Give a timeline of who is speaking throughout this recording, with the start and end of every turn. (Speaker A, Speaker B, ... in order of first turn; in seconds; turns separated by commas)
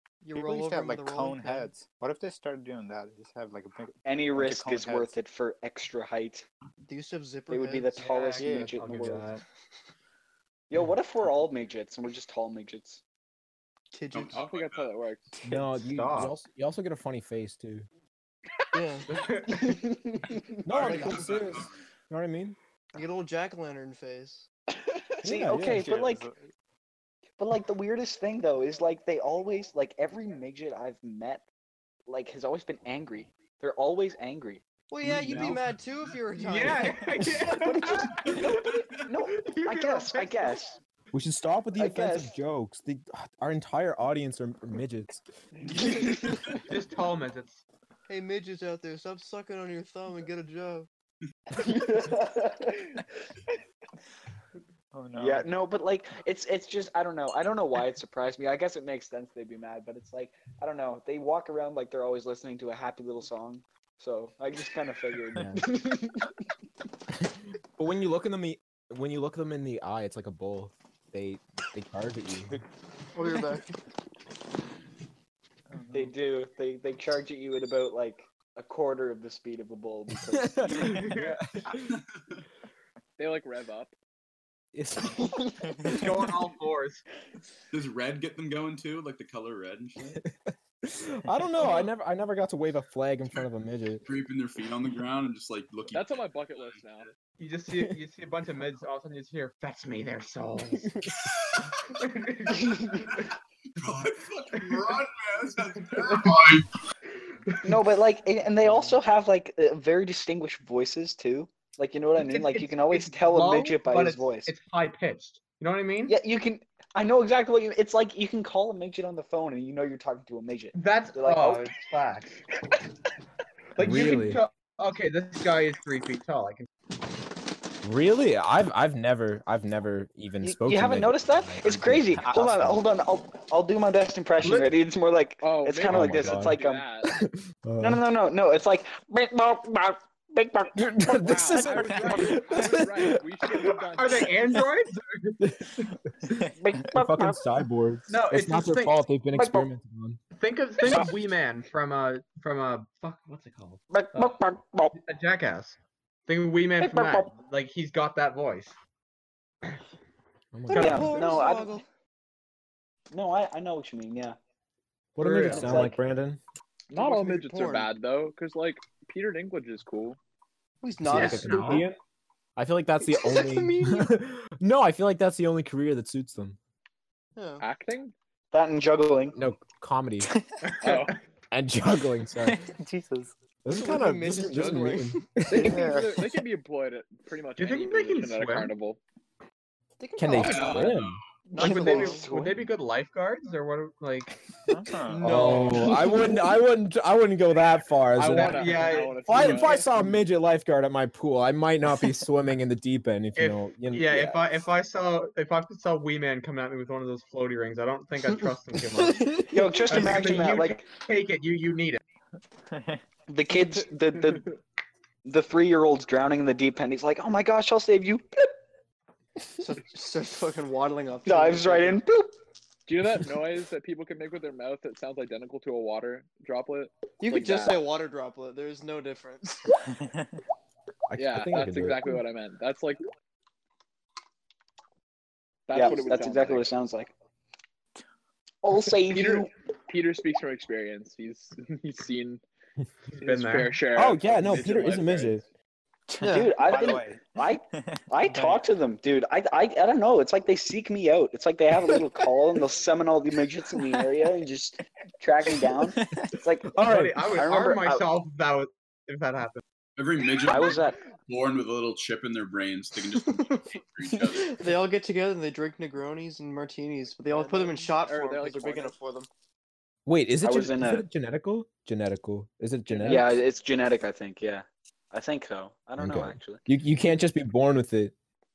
Speaker A: 0.2-1.7, Speaker B: 0.3-5.2, Speaker C: 4.0-6.5, Speaker A: 6.9-8.5, Speaker C: 7.5-9.3, Speaker D: 8.0-9.4, Speaker C: 10.7-13.0, Speaker A: 13.9-14.4, Speaker E: 14.1-14.9, Speaker F: 14.3-15.4, Speaker G: 15.4-17.9, Speaker D: 15.9-16.4, Speaker A: 18.7-19.1, Speaker D: 19.1-19.9, Speaker C: 19.5-20.4, Speaker G: 20.6-22.6, Speaker E: 20.7-21.8, Speaker A: 20.8-21.5, Speaker A: 22.9-24.5, Speaker G: 25.2-25.9, Speaker C: 25.2-26.2, Speaker B: 25.6-26.5, Speaker C: 27.4-31.4, Speaker C: 32.1-34.6, Speaker A: 34.9-37.2, Speaker E: 35.0-35.8, Speaker D: 36.4-40.8, Speaker E: 38.5-38.8, Speaker C: 39.0-40.8, Speaker G: 41.1-45.2, Speaker C: 41.8-42.3, Speaker C: 45.7-46.3, Speaker D: 46.5-47.6, Speaker A: 48.1-50.9, Speaker C: 51.5-53.0, Speaker B: 54.9-55.5, Speaker C: 55.2-66.1, Speaker G: 65.4-65.6, Speaker G: 67.2-72.6, Speaker A: 73.1-73.7, Speaker B: 75.7-76.1, Speaker C: 75.9-81.1, Speaker G: 80.3-81.9, Speaker D: 80.8-81.4, Speaker E: 81.9-82.4, Speaker F: 83.2-83.9, Speaker G: 84.7-86.0, Speaker D: 85.8-87.0, Speaker E: 87.7-90.2, Speaker G: 90.8-94.0, Speaker E: 94.0-96.8, Speaker F: 95.9-97.1, Speaker D: 97.4-101.0, Speaker E: 101.1-101.8, Speaker D: 101.9-103.3, Speaker E: 103.8-106.7, Speaker D: 104.6-104.9, Speaker D: 105.9-106.4, Speaker D: 107.5-107.8, Speaker C: 107.6-114.5, Speaker D: 112.2-116.2, Speaker C: 116.1-121.7, Speaker D: 120.7-122.4, Speaker D: 123.8-126.7, Speaker G: 123.8-124.4, Speaker G: 127.8-132.8, Speaker C: 130.4-136.8, Speaker B: 132.2-132.5, Speaker D: 134.4-134.7, Speaker F: 135.4-137.1, Speaker G: 135.9-138.0, Speaker C: 137.8-140.8, Speaker G: 140.8-143.2, Speaker F: 141.1-144.3, Speaker B: 141.7-142.4, Speaker D: 143.9-145.4, Speaker G: 145.4-150.2, Speaker C: 146.6-147.4, Speaker D: 148.1-149.0, Speaker C: 149.3-149.7, Speaker D: 150.3-154.4, Speaker C: 153.9-155.0, Speaker D: 154.9-158.8, Speaker C: 156.8-157.3, Speaker G: 160.5-161.3, Speaker A: 160.7-161.8, Speaker C: 160.7-161.8, Speaker C: 163.1-164.4, Speaker G: 165.2-166.4, Speaker D: 165.2-165.9, Speaker C: 165.4-166.0, Speaker F: 166.9-170.2, Speaker A: 166.9-167.9, Speaker A: 170.8-171.9, Speaker G: 171.0-172.0, Speaker D: 171.1-171.8, Speaker G: 172.6-176.6, Speaker A: 173.0-174.1, Speaker A: 177.4-177.6, Speaker F: 177.6-178.1, Speaker C: 178.5-179.4, Speaker G: 179.3-180.3, Speaker D: 180.7-181.1, Speaker F: 180.8-181.1, Speaker G: 181.5-182.7, Speaker B: 182.4-183.3, Speaker G: 183.6-186.0, Speaker A: 183.7-186.3, Speaker F: 185.5-189.0, Speaker D: 187.6-188.7, Speaker A: 190.0-190.9, Speaker G: 190.2-191.2, Speaker E: 190.4-191.2, Speaker A: 191.5-192.3, Speaker D: 191.5-194.4, Speaker C: 191.6-192.6, Speaker B: 194.7-195.5, Speaker A: 195.1-196.5, Speaker G: 195.2-204.3, Speaker D: 195.3-195.9, Speaker D: 198.2-199.8, Speaker F: 198.2-199.9, Speaker D: 203.4-212.0, Speaker A: 208.9-209.5, Speaker C: 209.5-210.8, Speaker B: 212.7-213.0, Speaker C: 213.3-214.5, Speaker C: 215.2-218.5, Speaker A: 219.6-222.0, Speaker C: 221.2-222.3, Speaker F: 222.9-227.9, Speaker A: 227.2-229.8, Speaker B: 230.0-230.4, Speaker G: 231.1-232.2, Speaker F: 231.2-233.0, Speaker F: 235.7-236.7, Speaker C: 235.7-237.1, Speaker C: 238.6-239.5, Speaker F: 239.1-242.4, Speaker D: 243.1-243.8, Speaker F: 243.2-245.4, Speaker G: 243.9-245.4, Speaker B: 246.1-247.2, Speaker A: 246.2-246.5, Speaker C: 246.2-258.1, Speaker B: 247.7-248.6, Speaker D: 256.8-259.6, Speaker G: 256.8-257.2, Speaker E: 259.9-264.7, Speaker C: 260.4-261.0, Speaker A: 263.1-263.6, Speaker A: 264.1-269.3, Speaker F: 267.3-268.9, Speaker G: 270.1-273.4, Speaker C: 270.4-271.0, Speaker F: 272.9-273.3, Speaker C: 273.1-276.6, Speaker G: 276.0-278.1